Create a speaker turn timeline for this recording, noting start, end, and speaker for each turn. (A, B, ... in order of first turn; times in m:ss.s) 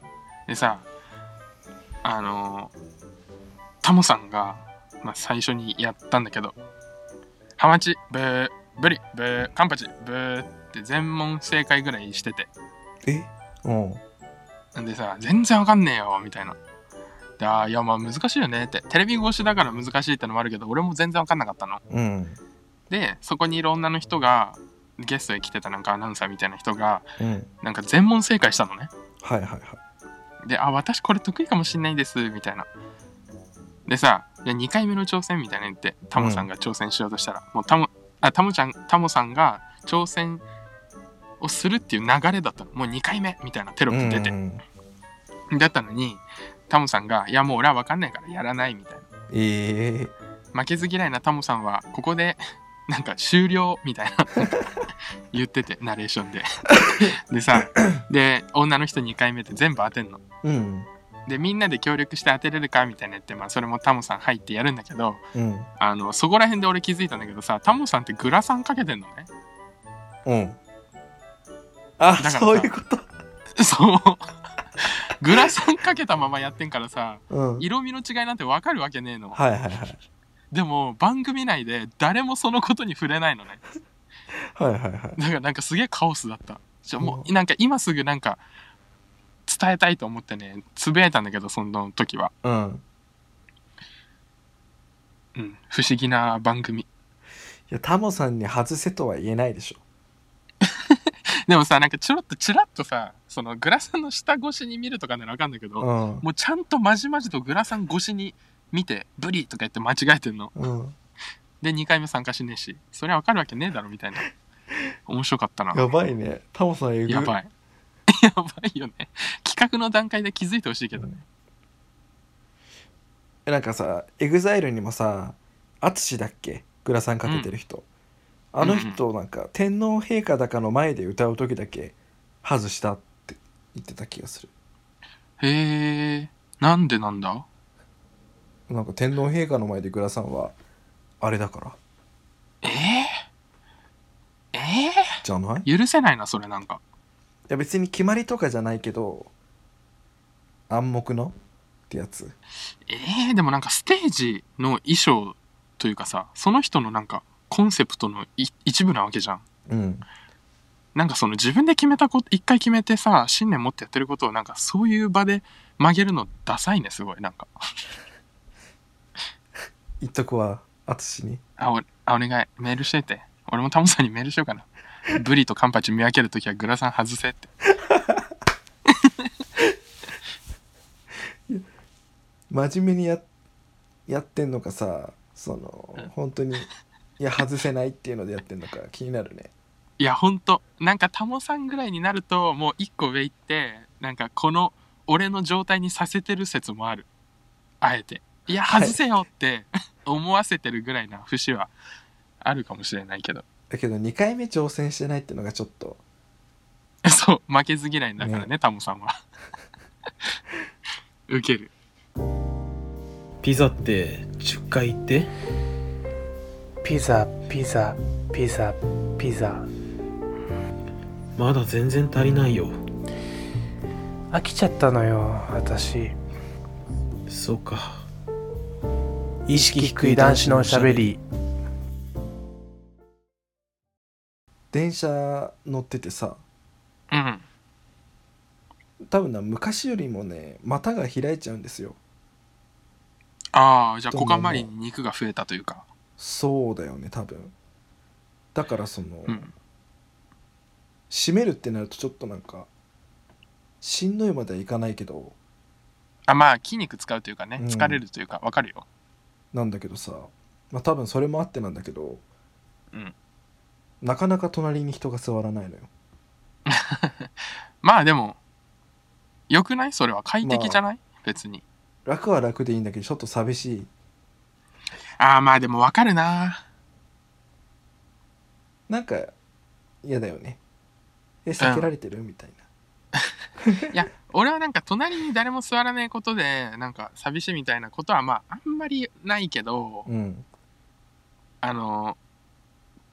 0:00.5-0:00.8 A
0:02.0-0:02.7 A
0:03.8-0:06.5 A
0:07.6-0:12.5 A
0:13.0-0:14.0 B
0:14.8-0:16.6 A
0:17.4-0:21.8 A
0:21.9-0:22.4 B
0:22.9-0:27.0 A
0:27.2-0:27.5 B
0:27.6-0:28.9 A
0:29.2-0:29.8 B
0:30.4-0:32.7 A
0:33.9-0:40.4 A
0:36.1-0:36.5 B
0:41.4-0:44.3 A
0:43.9-0:44.6 B
0:45.5-0:49.0 A
0:49.3-0:50.1 B
0:50.5-0:54.5 A
0:55.3-1:00.2 A
1:00.4-1:00.9 B
1:01.3-1:05.2 A
1:05.3-1:05.7 B
1:05.8-1:09.3 A
1:10.2-1:10.6 B
1:12.0-1:13.1 B
1:12.2-1:12.7 A
1:13.6-1:14.2 A
1:14.8-1:19.4 A
1:17.3-1:17.7 B
1:19.3-1:20.0 B
1:20.5-1:23.6 A
1:24.6-1:25.2 B
1:25.2-1:28.4 A
1:27.0-1:27.3 B
1:29.5-1:32.3 A
1:32.4-1:32.8 B
1:35.3-1:36.8 A
1:37.7-1:39.8 B
1:40.6-1:50.5 A
1:45.8-1:46.2 B
1:50.6-1:50.9 B
1:51.6-1:54.2 A
1:55.1-1:55.9 A
1:55.7-1:57.4 B
1:57.1-1:57.5 A
1:58.1-2:01.1 A
2:03.5-2:07.8 B
2:07.2-2:07.5 A
2:08.5-2:14.5 B
2:08.6-2:09.0 A
2:15.4-2:17.4 A
2:18.7-2:20.5 B
2:21.2-2:21.8 B
2:22.6-2:23.2 A
2:24.5-2:26.8 A
2:25.2-2:25.7 B
2:27.5-2:29.3 B
2:30.7-2:31.3 B
2:31.9-2:32.3 B
2:32.9-2:39.4 A
2:39.7-2:40.0 B
2:40.9-2:47.5 A
2:50.0-2:51.4 B
2:51.6-2:57.5 A
2:57.9-2:58.2 B
3:02.5-3:03.2 B
3:04.1-3:09.5 B
3:10.0-3:17.1 A
3:17.8-3:21.7 A
3:18.7-3:19.0 B
3:22.4-3:23.4 A
3:23.7-3:26.0 B
3:27.0-3:29.2 A
3:28.2-3:28.5 B
3:31.3-3:31.7 A
3:33.4-3:35.3 C
3:36.8-3:39.7 D
3:41.4-3:42.8 C
3:44.3-3:46.2 D
3:47.3-3:48.0 C
3:49.5-3:51.1 C
3:49.5-3:51.2 D
3:54.7-3:56.4 B
3:57.1-3:57.4 A
3:59.1-4:02.0 B
4:03.5-4:05.8 A
4:04.1-4:04.7 B
4:06.2-4:07.5 B
4:08.5-4:09.4 B
4:09.3-4:09.5 A
4:11.1-4:12.7 B
4:13.8-4:15.3 B
4:16.3-4:18.8 A
4:17.6-4:18.0 B
4:19.5-4:22.2 B
4:24.0-4:25.9 B
4:26.7-4:27.3 A
4:27.8-4:28.4 A
4:29.5-4:31.6 A
4:30.4-4:30.8 B
4:32.0-4:33.9 B
4:35.2-4:36.6 A
4:38.9-4:39.3 B
4:40.0-4:40.6 B
4:41.4-4:42.6 B
4:41.6-4:41.9 A
4:43.6-4:43.9 B
4:43.9-4:50.1 A
4:50.0-4:50.4 B
4:51.6-4:52.2 A